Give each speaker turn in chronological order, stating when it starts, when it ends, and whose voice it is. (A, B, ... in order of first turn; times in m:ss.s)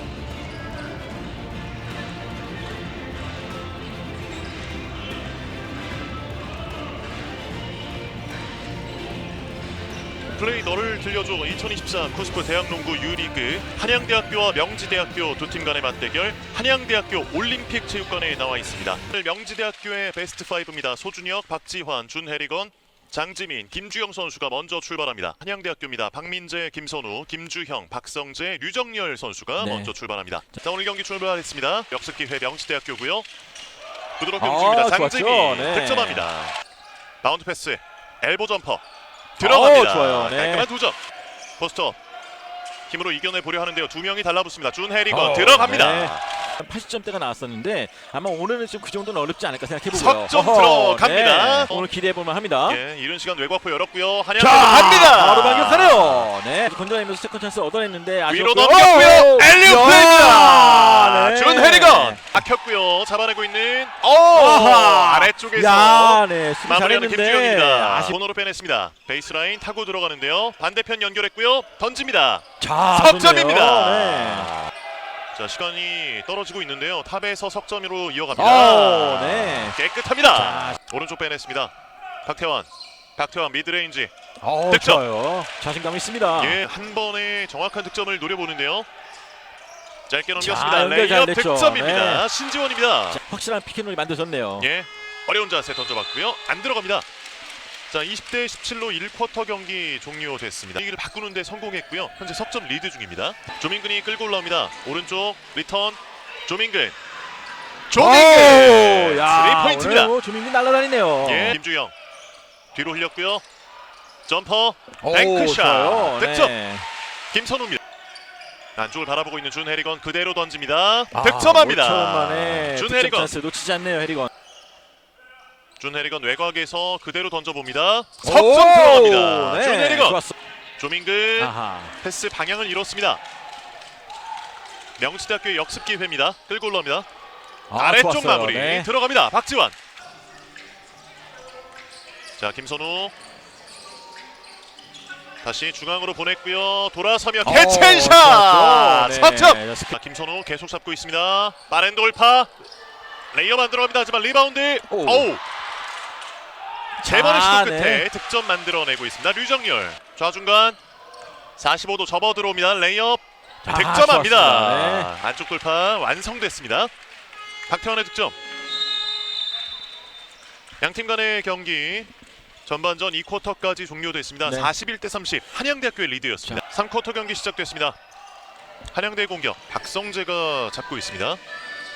0:10.3-0:33.3 A
0:29.6-0:30.0 B
0:34.2-0:36.6 A
0:34.4-0:36.3 B
0:37.2-0:38.8 A
0:39.4-0:40.7 B
0:39.4-0:41.0 A
0:41.6-0:42.0 A
0:42.9-0:46.2 A
0:45.1-0:52.8 B
0:49.9-0:51.9 A
0:52.7-0:56.3 A
0:54.4-1:02.3 B
0:58.3-1:14.7 A
1:04.3-1:08.2 B
1:12.6-1:14.5 B
1:15.3-1:21.7 A
1:18.3-1:19.8 B
1:20.3-1:20.8 B
1:22.2-1:24.1 A
1:24.4-1:26.6 B
1:24.7-1:25.0 A
1:26.4-1:28.9 A
1:30.1-1:33.2 A
1:30.4-1:32.3 B
1:33.1-1:34.7 B
1:34.6-1:37.1 A
1:37.9-1:47.0 A
1:47.9-1:50.1 A
1:47.9-1:51.6 B
1:51.2-1:51.9 A
1:52.7-1:53.4 A
1:54.3-1:56.6 A
1:55.0-1:56.8 B
1:57.3-1:57.8 A
1:58.8-2:03.3 A
2:01.1-2:04.3 B
2:05.8-2:10.2 A
2:08.2-2:10.4 B
2:10.8-2:13.2 A
2:11.4-2:12.0 B
2:15.0-2:17.1 A
2:17.7-2:18.9 B
2:17.8-2:19.8 A
2:22.4-2:23.1 A
2:25.4-2:32.5 A
2:27.4-2:29.9 B
2:33.3-2:35.4 A
2:34.9-2:35.3 B
2:37.0-2:38.1 B
2:37.1-2:40.8 A
2:41.6-2:46.9 A
2:43.6-2:45.1 B
2:47.7-2:48.4 A
2:50.8-2:52.1 A
2:52.6-2:58.0 A
2:54.4-2:54.7 B
2:58.9-3:01.4 A